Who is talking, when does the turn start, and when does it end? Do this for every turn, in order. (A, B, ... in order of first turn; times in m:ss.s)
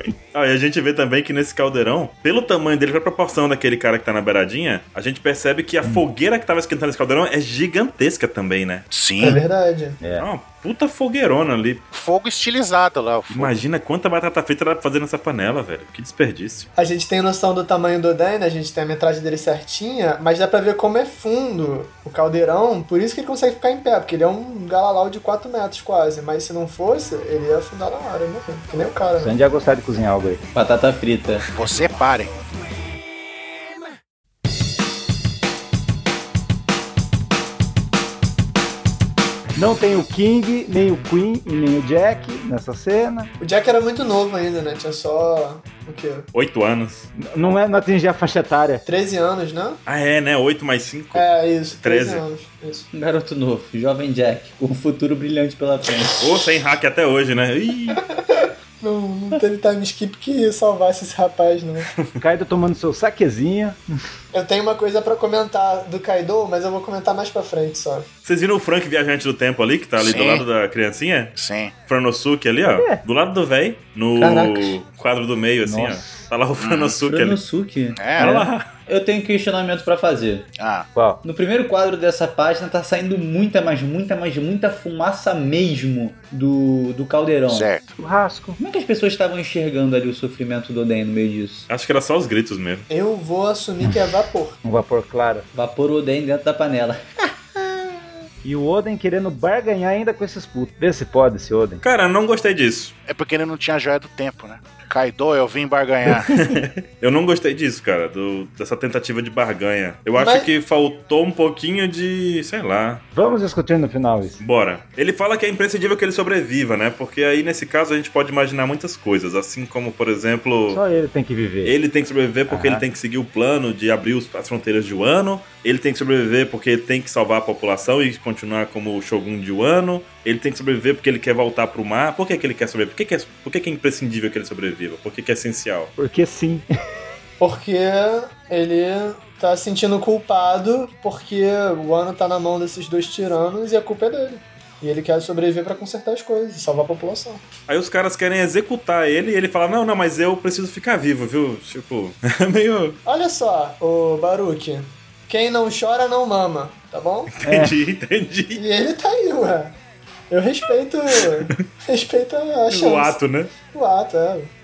0:00.3-0:08.9 A
0:08.9-0:09.4 B
0:09.2-0:10.0 C
0:10.0-0:10.3 D
0:10.2-0:11.8 A
0:11.9-0:13.5 B
0:13.3-0:16.7 A
0:16.8-0:29.4 C
0:29.2-0:30.4 D
0:30.5-0:31.5 E
0:31.5-0:32.3 B
0:39.6-0:43.3 D
0:43.4-0:46.2 C
0:46.3-0:47.1 A
0:47.2-0:48.8 D
0:48.8-0:49.8 C
0:49.8-0:52.2 A
0:51.1-0:52.9 C
0:52.9-0:56.2 E
0:56.2-0:58.0 A
0:57.9-1:01.9 C
1:02.2-1:03.8 D
1:04.3-1:08.1 C
1:08.2-1:11.3 A
1:10.0-1:10.4 B
1:11.4-1:11.7 B
1:11.9-1:17.4 A
1:12.7-1:13.0 D
1:14.2-1:14.8 E
1:15.6-1:16.3 D
1:16.6-1:16.9 B
1:17.0-1:20.5 E
1:18.0-1:18.4 B
1:18.2-1:18.7 A
1:20.6-1:20.9 B
1:20.9-1:21.2 D
1:21.2-1:27.7 E
1:27.5-1:28.0 B
1:28.0-1:28.6 D
1:28.6-1:31.7 E
1:31.7-1:32.9 A
1:32.9-1:34.6 C
1:34.6-1:35.4 D
1:35.5-1:37.8 E
1:38.4-1:41.8 D
1:41.8-1:42.9 A
1:43.1-1:46.4 B
1:46.3-1:53.0 A
1:50.2-1:50.5 C
1:53.1-1:54.4 D
1:54.4-2:00.8 A
2:00.7-2:01.8 D
2:01.6-2:15.9 A
2:02.5-2:02.8 D
2:16.0-2:16.7 D
2:17.4-2:27.4 C
2:27.7-2:33.0 A
2:33.0-2:37.3 C
2:37.3-2:38.6 A
2:37.4-2:37.8 D
2:38.5-2:39.8 C
2:40.3-2:44.5 C
2:42.7-2:43.5 A